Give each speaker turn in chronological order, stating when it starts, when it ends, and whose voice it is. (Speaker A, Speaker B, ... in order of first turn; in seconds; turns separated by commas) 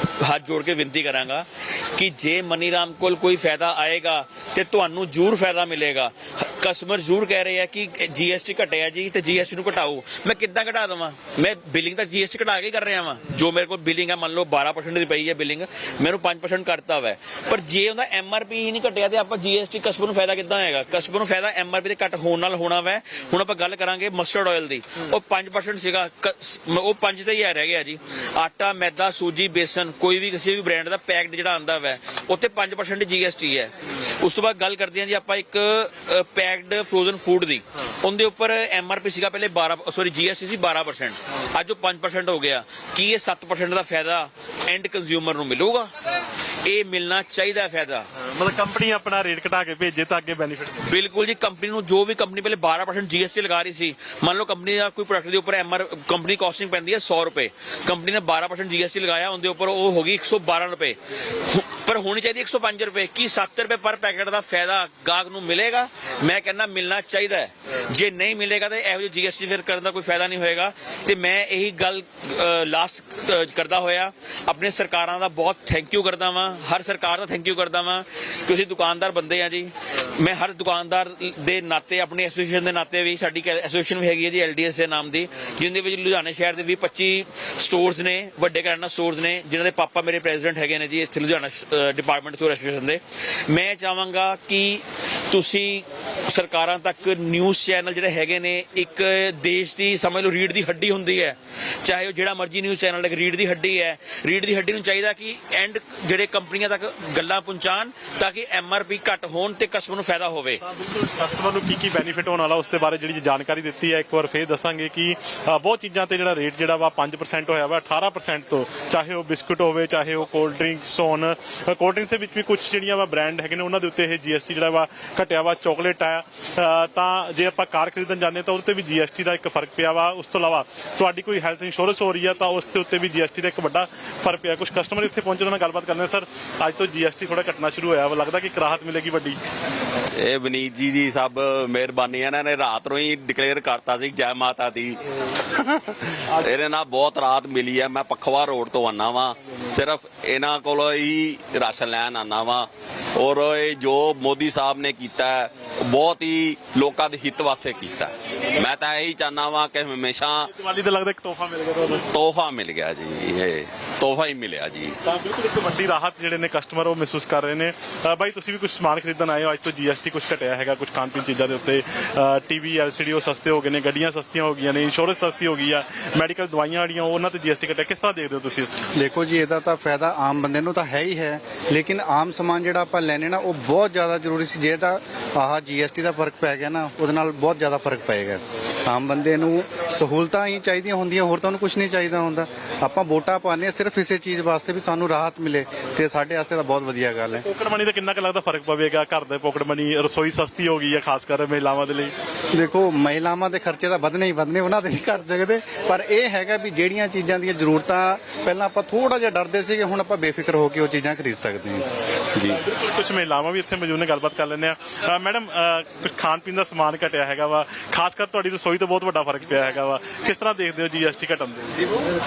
Speaker A: 0.2-45.9, Speaker A: 46.6-48.1, Speaker B: 48.2-50.9, Speaker A: 50.8-110.6, Speaker B: 110.8-139.4, Speaker C: 140.2-145.0, Speaker C: 145.5-160.5, Speaker B: 160.5-162.0, Speaker C: 161.9-165.0, Speaker B: 165.1-178.8, Speaker D: 179.0-197.4, Speaker B: 197.5-202.1, Speaker D: 202.5-211.8, Speaker B: 212.7-221.8